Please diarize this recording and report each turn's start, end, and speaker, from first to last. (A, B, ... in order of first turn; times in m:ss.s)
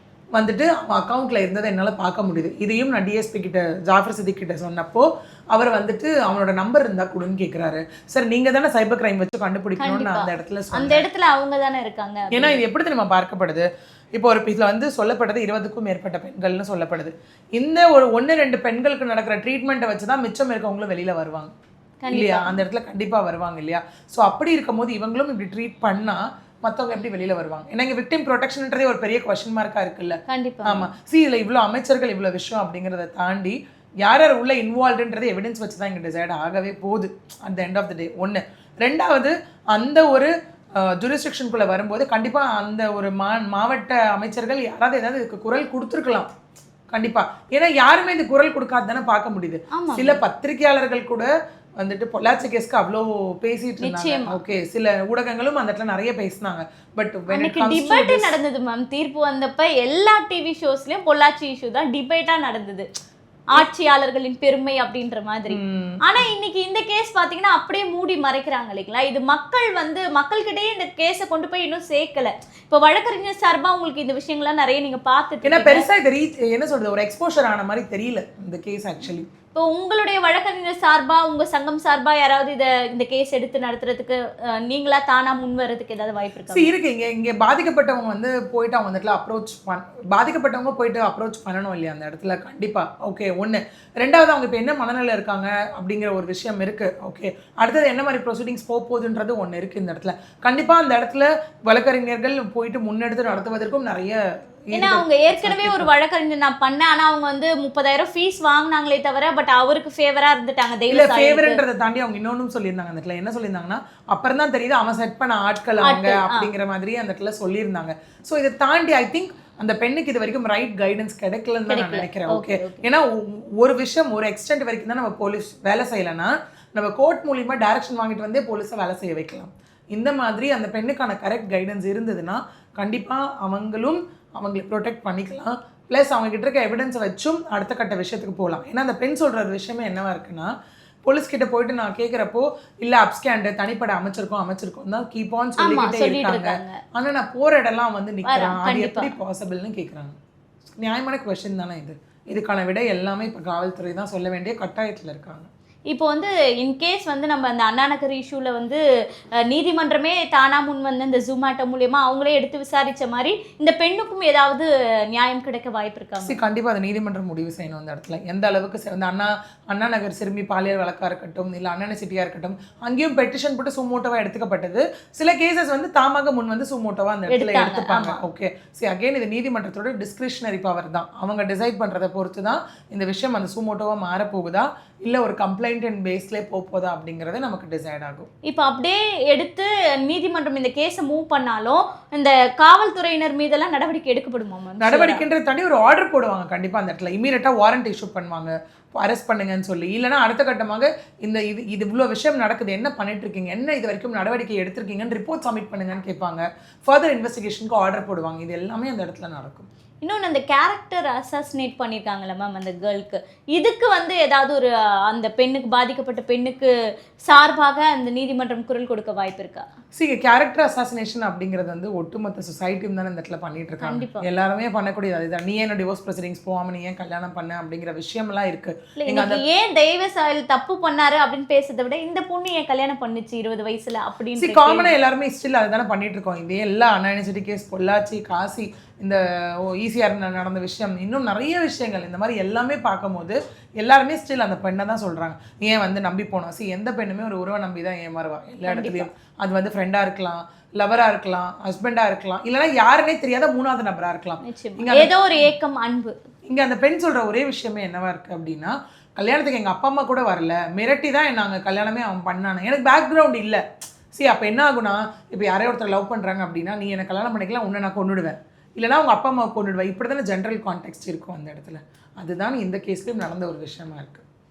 0:00.4-0:11.1 A
0:09.8-0:12.6 B
0:12.3-0:21.5 A
0:22.0-0:22.6 B
0:22.1-0:46.3 A
0:30.3-0:30.9 B
0:46.9-0:58.3 A
0:49.7-0:50.2 B
0:53.8-0:54.4 B
0:57.3-1:02.9 B
1:03.6-1:15.9 B
1:05.5-1:06.0 A
1:15.4-1:19.3 A
1:19.6-1:26.7 B
1:26.5-1:45.9 A
1:44.7-1:51.6 B
1:50.9-2:20.5 A
1:55.8-1:56.5 B
2:01.7-2:02.8 B
2:21.1-2:30.2 A
2:25.6-2:26.8 B
2:28.3-2:29.2 B
2:30.8-2:35.5 A
2:35.9-2:38.8 B
2:39.5-2:46.4 B
2:46.2-3:08.3 A
2:57.3-2:58.2 B
3:08.4-3:15.2 B
3:14.8-3:29.7 A
3:30.0-3:36.7 B
3:37.3-3:39.7 B
3:40.0-3:49.4 A
3:43.8-3:44.3 B
3:49.0-3:54.9 B
3:54.4-4:15.2 A
4:08.6-4:09.1 B
4:14.4-4:16.2 B
4:16.5-4:23.6 A
4:24.2-4:34.2 A